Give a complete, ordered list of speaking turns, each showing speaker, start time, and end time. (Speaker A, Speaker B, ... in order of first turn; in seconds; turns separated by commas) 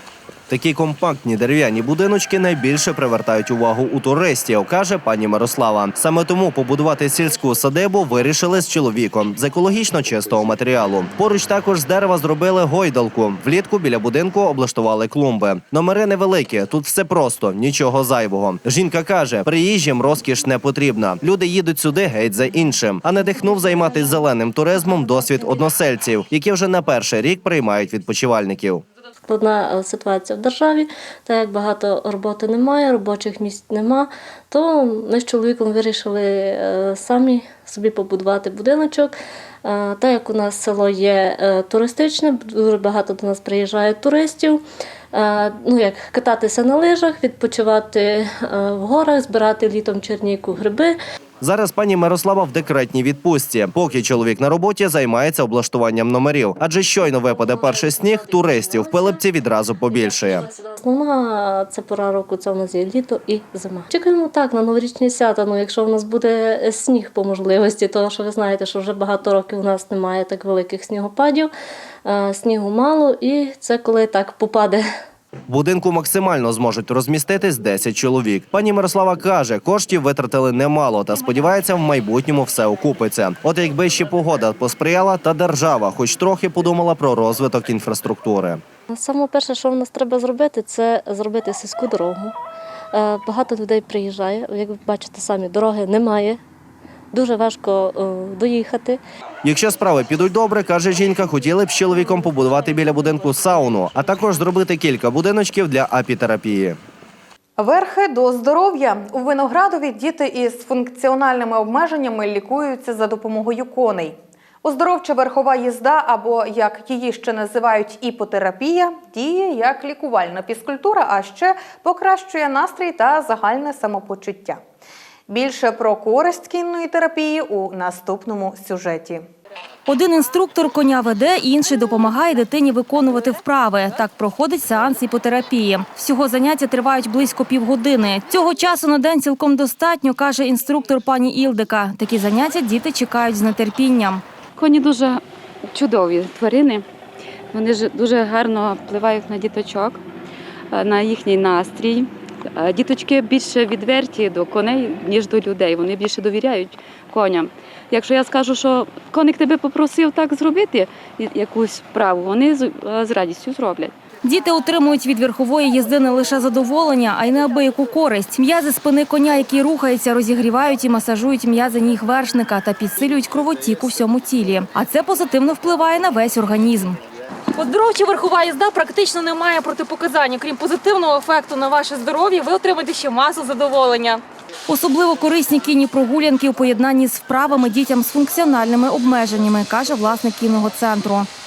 Speaker A: 0.5-28.8, Speaker B: 29.3-51.0, Speaker A: 51.4-60.5, Speaker B: 57.9-59.2, Speaker B: 60.3-71.5, Speaker B: 72.0-74.9, Speaker A: 75.5-88.6, Speaker B: 88.9-92.3, Speaker B: 92.9-96.4, Speaker B: 97.1-99.0, Speaker A: 99.4-106.8, Speaker C: 107.6-124.6, Speaker C: 125.3-129.2, Speaker D: 129.9-144.2, Speaker E: 144.6-146.8, Speaker E: 147.5-150.0, Speaker E: 150.7-163.9, Speaker D: 164.2-177.0, Speaker D: 177.6-178.4, Speaker D: 184.7-191.3